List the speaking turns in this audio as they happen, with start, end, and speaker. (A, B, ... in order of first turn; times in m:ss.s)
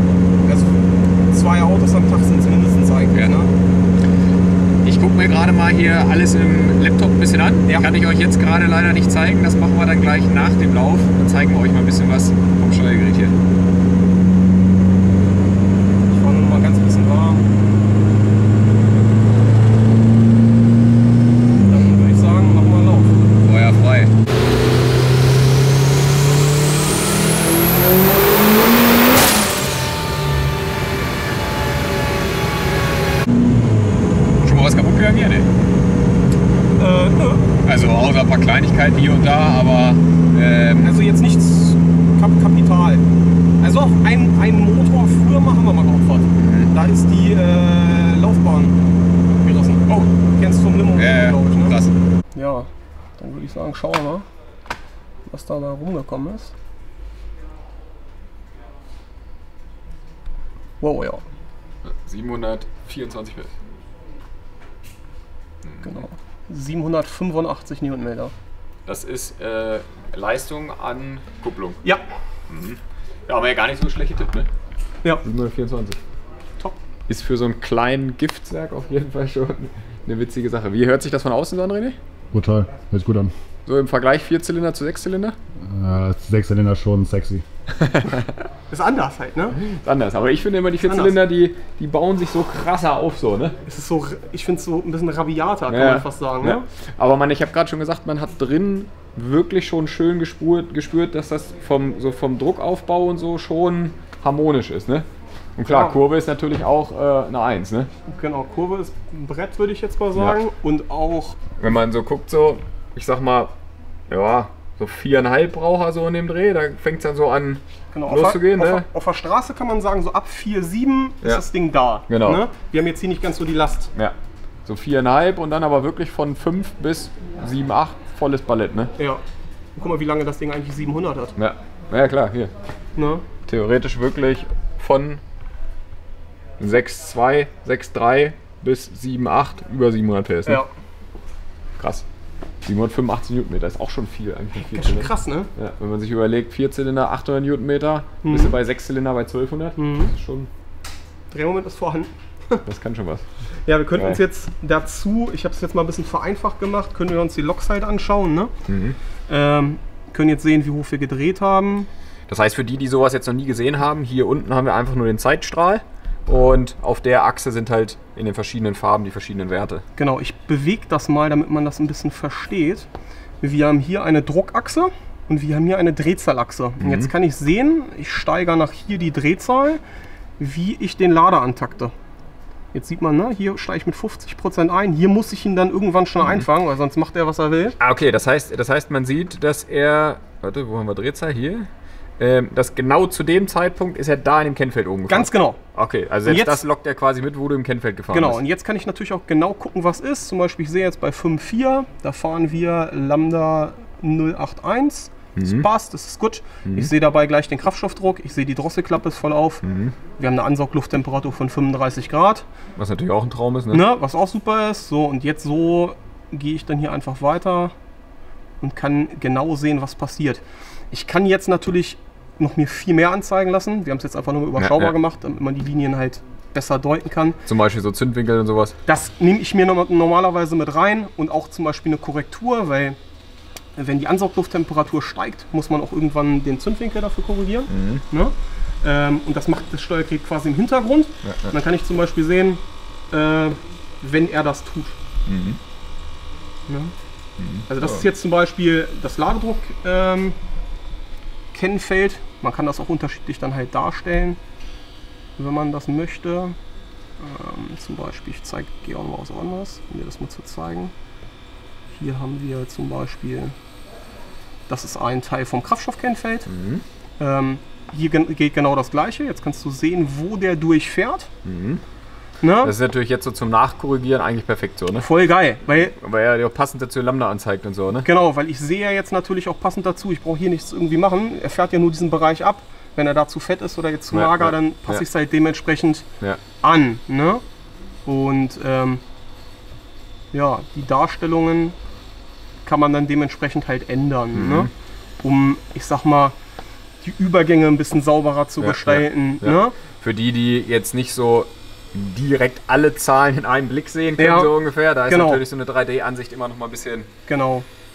0:00.4-0:03.5 A
0:04.8-0:13.4 B
0:16.1-0:17.5 A
0:21.6-0:23.2 A
0:23.4-0:24.1 B
0:34.4-0:35.5 B
0:36.8-0:37.6 A
0:37.6-0:41.0 B
0:40.7-0:43.0 A
0:43.6-0:48.8 A
0:46.4-0:46.7 B
0:49.4-0:51.8 A
0:50.9-0:51.9 B
0:52.3-0:54.3 A
0:55.2-0:56.5 A
1:00.8-1:01.2 A
1:01.8-1:03.5 B
1:05.6-1:05.9 B
1:05.8-1:08.3 A
1:08.8-1:11.8 B
1:12.5-1:14.5 B
1:15.2-1:16.0 B
1:17.1-1:22.0 B
1:22.3-1:23.3 C
1:23.6-1:25.4 B
1:25.6-1:27.4 C
1:27.8-1:28.4 B
1:28.7-1:29.6 A
1:29.7-1:33.6 B
1:30.8-1:31.2 A
1:33.6-1:36.6 A
1:35.7-1:47.9 B
1:45.7-1:46.0 A
1:48.1-1:51.4 A
1:51.6-1:53.5 B
1:54.1-1:58.9 B
1:57.9-2:03.9 A
2:02.1-2:02.4 B
2:04.6-2:08.9 B
2:09.8-2:11.3 A
2:11.4-2:12.5 B
2:13.0-2:13.2 A
2:13.4-2:15.2 B
2:16.6-2:20.6 B
2:21.8-2:22.0 B
2:22.6-2:30.5 B
2:24.6-2:25.5 A
2:28.2-2:28.6 A
2:29.8-2:30.1 A
2:31.3-2:32.6 A
2:32.6-2:33.2 B
2:33.6-2:38.5 A
2:33.9-2:34.2 B
2:38.7-2:39.0 B
2:39.3-2:41.9 A
2:42.3-2:49.8 B
2:50.0-2:52.9 A
2:53.4-2:59.8 A
2:56.8-2:57.1 B
3:00.4-3:01.9 A
3:02.7-3:07.8 A
3:07.8-3:11.7 B
3:12.2-3:18.4 B
3:15.1-3:15.6 A
3:16.2-3:16.6 A
3:18.1-3:29.6 A
3:25.4-3:25.7 B
3:26.6-3:26.9 B
3:29.6-3:29.9 B
3:30.2-3:32.4 A
3:32.8-3:33.8 B
3:33.7-3:37.7 A
3:38.6-3:47.4 A
3:44.6-3:45.0 B
3:47.4-3:48.8 B
3:48.8-3:53.0 A
3:53.8-4:05.0 A
3:57.7-3:58.0 B
4:01.2-4:01.5 B
4:05.3-4:05.6 B
4:06.7-4:06.9 A
4:07.4-4:08.0 B
4:07.7-4:10.4 A
4:11.5-4:14.4 A
4:15.4-4:16.6 A
4:17.2-4:20.9 A
4:21.9-4:23.5 A
4:24.7-4:26.5 A
4:26.5-4:26.8 B
4:27.2-4:31.3 A
4:31.4-4:31.8 B
4:32.4-4:32.7 A
4:32.6-4:35.1 B
4:35.0-4:35.9 A
4:35.7-4:38.1 B
4:38.0-4:46.0 A
4:44.1-4:45.0 B
4:46.6-4:47.4 A
4:48.0-4:49.0 A
4:50.3-4:51.8 A
4:52.6-4:54.7 A
4:54.3-4:54.7 B
4:55.2-4:56.4 A
4:57.0-4:59.7 A
4:58.6-5:07.1 B
5:04.2-5:04.5 A
5:05.0-5:05.4 A
5:07.3-5:07.7 A